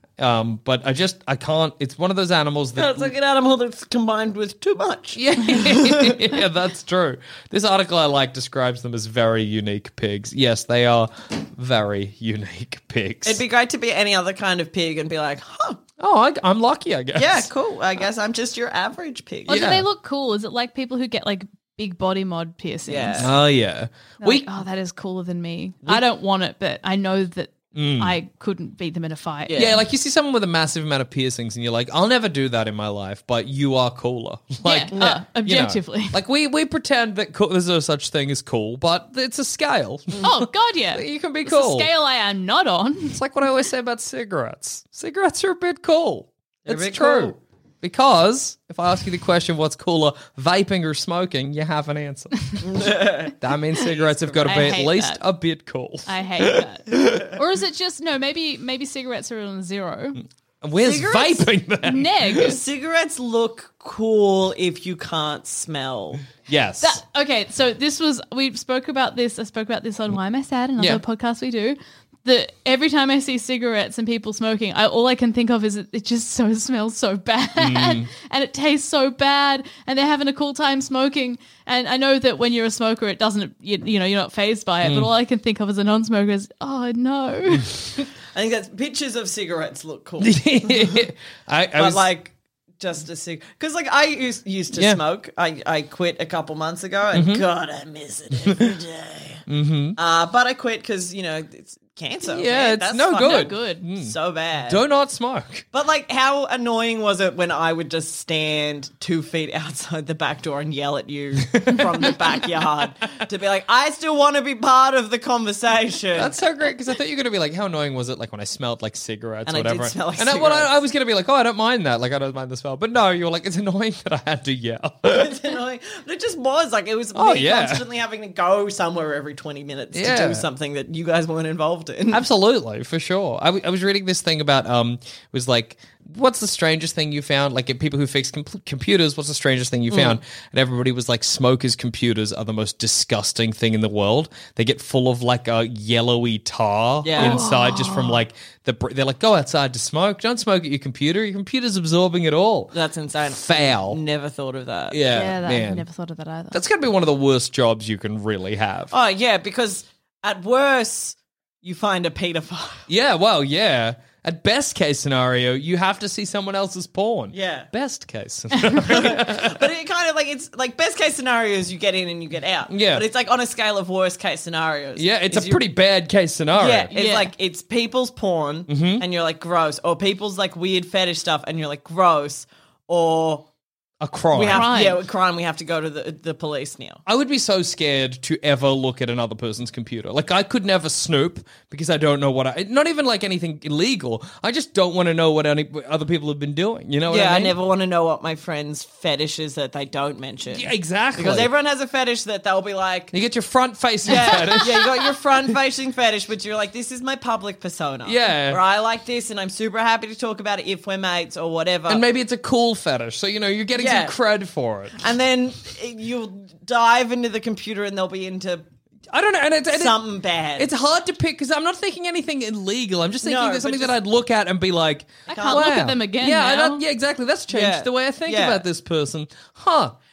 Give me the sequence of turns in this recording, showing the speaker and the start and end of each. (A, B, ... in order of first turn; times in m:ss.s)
0:00.2-0:03.1 A
0:02.8-0:06.4 B
0:05.2-0:13.4 A
0:13.3-0:15.8 B
0:16.0-0:17.5 A
0:17.2-0:19.6 B
0:19.5-0:19.8 A
0:19.5-0:23.3 C
0:22.9-0:23.3 B
0:23.2-0:24.4 A
0:24.2-0:29.6 C
0:27.7-0:28.2 A
0:29.5-0:29.8 B
0:29.6-0:40.3 A
0:34.6-0:36.2 C
0:40.2-0:43.2 C
0:40.9-0:41.9 A
0:43.1-0:52.9 A
0:46.7-0:47.4 B
0:52.6-0:54.9 B
0:53.4-0:57.2 A
0:54.4-0:55.2 C
0:56.1-1:00.2 C
1:00.6-1:02.5 A
1:00.8-1:01.5 B
1:01.9-1:02.6 C
1:02.4-1:06.3 B
1:06.4-1:07.0 A
1:06.8-1:27.8 C
1:17.6-1:18.1 A
1:24.8-1:25.1 A
1:28.3-1:31.0 B
1:30.2-1:32.0 A
1:31.8-1:39.4 B
1:34.7-1:35.0 A
1:37.1-1:37.4 A
1:38.5-1:38.7 A
1:39.5-1:40.0 A
1:40.0-1:44.8 B
1:42.3-1:44.2 A
1:43.2-1:43.8 C
1:44.7-1:45.7 A
1:45.7-1:56.4 B
1:51.5-1:52.1 A
1:56.2-2:05.3 A
1:59.5-2:00.7 B
2:05.1-2:12.2 B
2:07.2-2:07.8 A
2:09.9-2:10.5 A
2:12.1-2:32.8 A
2:19.9-2:20.2 B
2:27.0-2:27.4 B
2:27.2-2:28.2 C
2:32.7-2:35.0 B
2:33.3-2:34.0 A
2:34.9-2:35.8 A
2:35.1-2:36.6 C
2:36.5-2:38.9 A
2:38.9-2:42.8 B
2:42.9-2:49.7 A
2:47.3-2:47.7 B
2:48.8-2:55.6 B
2:52.7-2:53.0 A
2:55.0-2:56.9 A
2:56.6-3:03.5 B
2:56.9-2:57.3 C
2:58.7-2:59.0 A
3:04.0-3:04.7 A
3:04.3-3:07.0 B
3:04.5-3:05.0 C
3:07.1-3:17.6 A
3:17.1-3:23.1 B
3:20.5-3:21.5 A
3:23.1-3:25.0 A
3:24.1-3:32.0 B
3:28.0-3:28.6 A
3:31.9-3:35.0 A
3:33.7-3:34.1 B
3:35.0-3:38.6 B
3:39.1-3:40.0 A
3:39.7-3:40.7 B
3:40.6-3:50.0 A
3:43.2-3:44.0 B
3:45.3-3:45.7 B
3:45.3-3:46.8 C
3:47.5-3:48.6 B